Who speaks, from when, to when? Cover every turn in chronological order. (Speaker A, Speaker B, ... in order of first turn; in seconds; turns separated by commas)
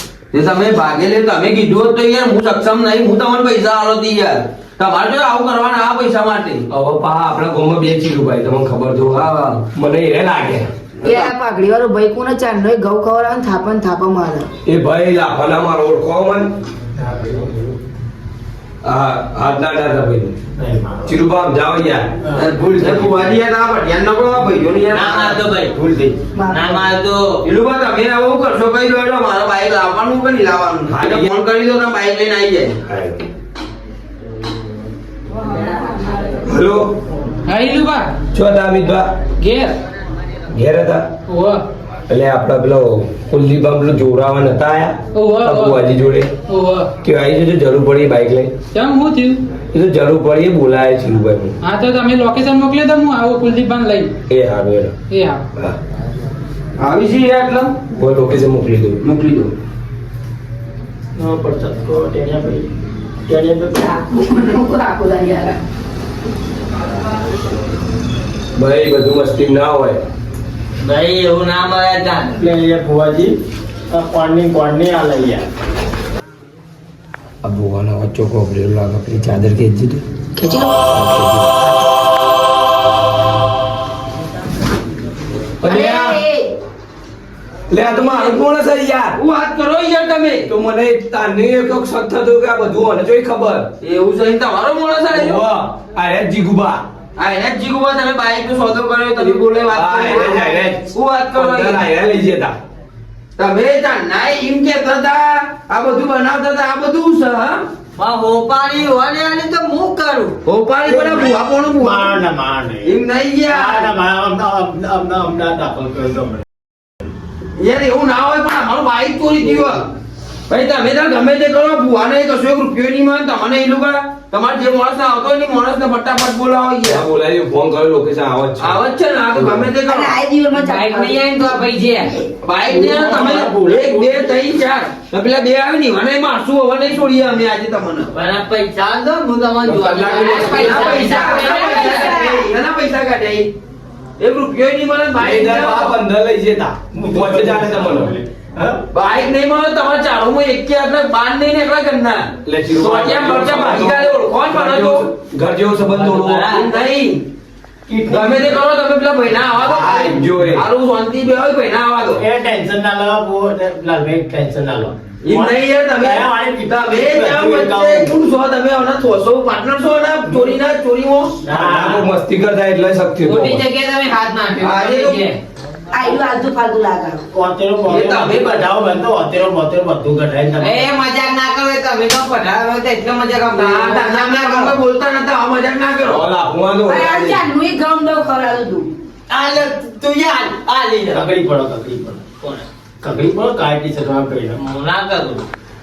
Speaker A: 0.3-6.7, Speaker B: 6.7-11.3, Speaker A: 9.2-9.6, Speaker C: 11.0-14.5, Speaker B: 14.7-16.5, Speaker D: 16.9-17.7, Speaker B: 18.8-20.3, Speaker D: 20.6-21.2, Speaker B: 21.1-22.1, Speaker D: 22.2-23.3, Speaker A: 22.3-25.4, Speaker E: 24.9-25.7, Speaker D: 25.6-26.2, Speaker C: 26.4-26.9, Speaker E: 26.5-27.4, Speaker A: 27.4-32.8, Speaker B: 30.9-31.3, Speaker B: 32.9-33.2, Speaker C: 35.4-36.4, Speaker B: 36.4-37.0, Speaker F: 37.5-38.2, Speaker B: 38.3-39.1, Speaker F: 39.4-39.7, Speaker B: 40.5-41.0, Speaker F: 41.3-41.6, Speaker B: 42.1-46.3, Speaker F: 45.1-45.8, Speaker F: 46.5-46.9, Speaker B: 47.0-48.5, Speaker F: 48.7-49.4, Speaker B: 49.7-51.6, Speaker F: 51.6-54.2, Speaker B: 54.3-54.9, Speaker F: 55.1-55.5, Speaker A: 56.8-57.8, Speaker B: 57.9-59.0, Speaker A: 59.0-59.5, Speaker D: 61.2-62.7, Speaker D: 63.3-63.9, Speaker C: 63.8-65.6, Speaker B: 68.5-70.0, Speaker E: 70.8-72.4, Speaker D: 72.4-73.3, Speaker D: 73.9-75.5, Speaker B: 77.4-80.0, Speaker C: 80.4-80.8, Speaker B: 80.9-81.5, Speaker B: 85.6-86.2, Speaker C: 85.6-86.5, Speaker B: 87.7-89.2, Speaker A: 88.0-88.3, Speaker A: 89.1-90.5, Speaker B: 90.5-93.7, Speaker A: 93.8-95.4, Speaker B: 95.2-96.8, Speaker D: 95.4-95.7, Speaker A: 97.2-101.8, Speaker B: 99.2-102.5, Speaker A: 103.4-107.6, Speaker E: 108.0-110.3, Speaker A: 110.4-112.2, Speaker D: 110.9-116.4, Speaker A: 112.8-113.9, Speaker A: 117.6-119.8, Speaker A: 120.5-127.0, Speaker B: 126.8-128.8, Speaker A: 128.6-130.2, Speaker B: 129.3-129.7, Speaker C: 129.8-132.3, Speaker E: 130.5-132.1, Speaker A: 132.4-138.1, Speaker D: 132.7-134.4, Speaker E: 138.1-142.4, Speaker B: 139.6-141.3, Speaker A: 140.1-143.5, Speaker F: 140.8-141.4, Speaker C: 141.5-142.4, Speaker A: 144.2-145.9, Speaker B: 145.1-148.1, Speaker D: 146.9-148.8, Speaker A: 148.9-155.0, Speaker B: 152.4-156.5, Speaker E: 155.8-156.7, Speaker A: 156.4-157.2, Speaker D: 157.9-158.6, Speaker A: 158.1-162.2, Speaker D: 159.7-160.2, Speaker B: 159.8-160.7, Speaker D: 162.1-168.1, Speaker A: 165.2-171.4, Speaker D: 171.4-172.1, Speaker B: 171.5-173.6, Speaker E: 173.2-175.4, Speaker A: 174.6-175.2, Speaker C: 175.9-177.2, Speaker D: 177.3-180.9, Speaker A: 177.8-178.7, Speaker E: 180.6-184.8, Speaker A: 183.5-186.2, Speaker B: 186.0-187.5, Speaker C: 186.8-188.9, Speaker E: 189.3-191.3, Speaker D: 191.1-192.2, Speaker D: 193.0-194.6, Speaker E: 194.6-195.4